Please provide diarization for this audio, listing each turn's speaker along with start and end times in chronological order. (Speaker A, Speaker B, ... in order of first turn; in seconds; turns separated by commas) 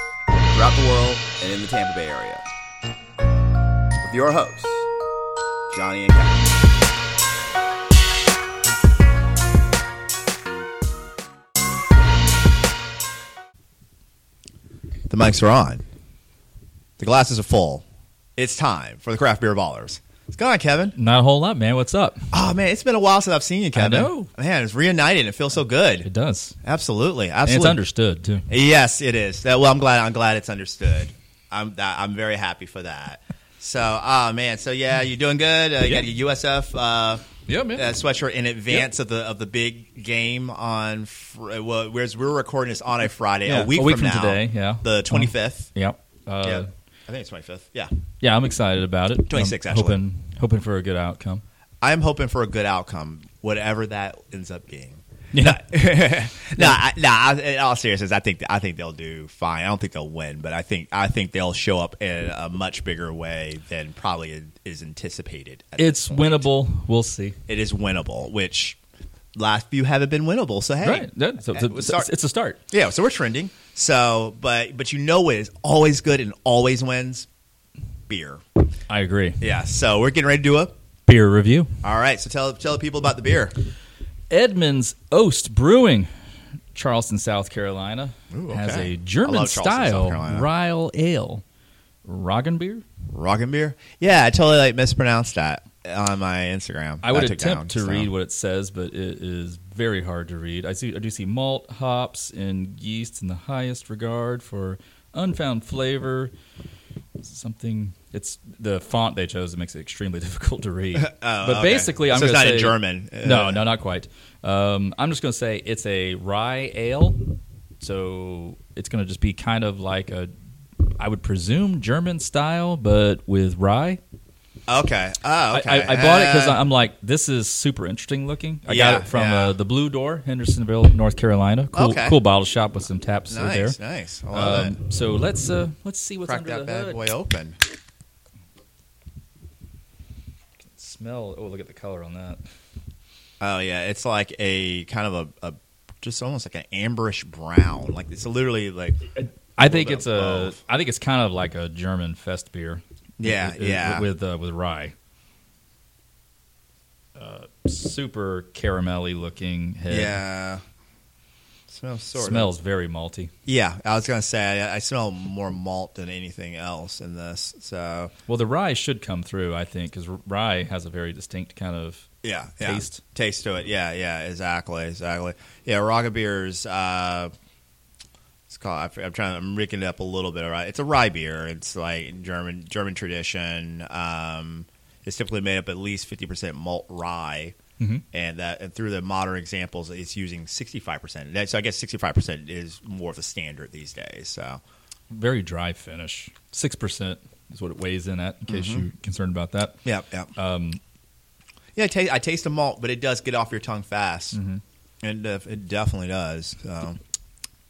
Speaker A: 0.5-2.5, Speaker A: 4.0-4.9, Speaker A: 5.7-6.5, Speaker A: 15.1-15.8, Speaker A: 17.0-17.8, Speaker A: 18.4-20.9, Speaker B: 20.9-22.2, Speaker A: 22.3-26.1, Speaker B: 23.7-24.3, Speaker B: 26.0-26.5, Speaker A: 26.6-27.8, Speaker B: 27.4-28.4, Speaker A: 28.5-37.2, Speaker B: 37.5-37.9, Speaker A: 37.7-45.7, Speaker B: 43.4-46.7, Speaker A: 46.4-47.9, Speaker B: 48.2-51.4, Speaker A: 49.3-50.0, Speaker A: 51.8-66.5, Speaker B: 55.3-55.6, Speaker B: 65.8-67.4, Speaker A: 67.5-68.8, Speaker A: 69.3-72.1, Speaker B: 70.8-72.6, Speaker A: 72.7-77.3, Speaker A: 78.1-78.4, Speaker B: 78.9-79.4, Speaker A: 79.4-80.7, Speaker B: 81.1-81.7, Speaker A: 81.8-83.5, Speaker B: 84.3-86.1, Speaker B: 86.7-91.4, Speaker A: 88.3-90.5, Speaker B: 92.0-92.8, Speaker A: 93.1-98.1, Speaker B: 97.0-106.3, Speaker B: 107.2-117.2, Speaker A: 111.0-113.6, Speaker B: 117.8-120.3, Speaker B: 121.0-124.0, Speaker A: 124.7-126.6, Speaker B: 125.5-133.8, Speaker A: 128.7-129.6, Speaker A: 131.7-132.2, Speaker A: 133.3-134.7, Speaker B: 134.3-137.0, Speaker A: 136.2-137.6, Speaker B: 140.7-142.4, Speaker A: 143.4-149.1, Speaker B: 149.1-154.9, Speaker A: 149.6-150.6, Speaker A: 153.2-154.1, Speaker B: 157.2-160.2, Speaker A: 159.9-160.6, Speaker A: 161.7-162.5, Speaker B: 162.2-163.3, Speaker A: 163.4-168.1, Speaker B: 168.3-172.1, Speaker A: 172.2-177.3, Speaker B: 172.6-173.0, Speaker A: 178.5-187.6, Speaker B: 187.8-188.0, Speaker A: 188.1-194.6, Speaker B: 195.1-199.8, Speaker A: 198.5-198.8, Speaker A: 199.8-200.3, Speaker B: 200.3-200.8, Speaker A: 201.8-204.4, Speaker B: 204.3-204.6, Speaker A: 205.0-207.0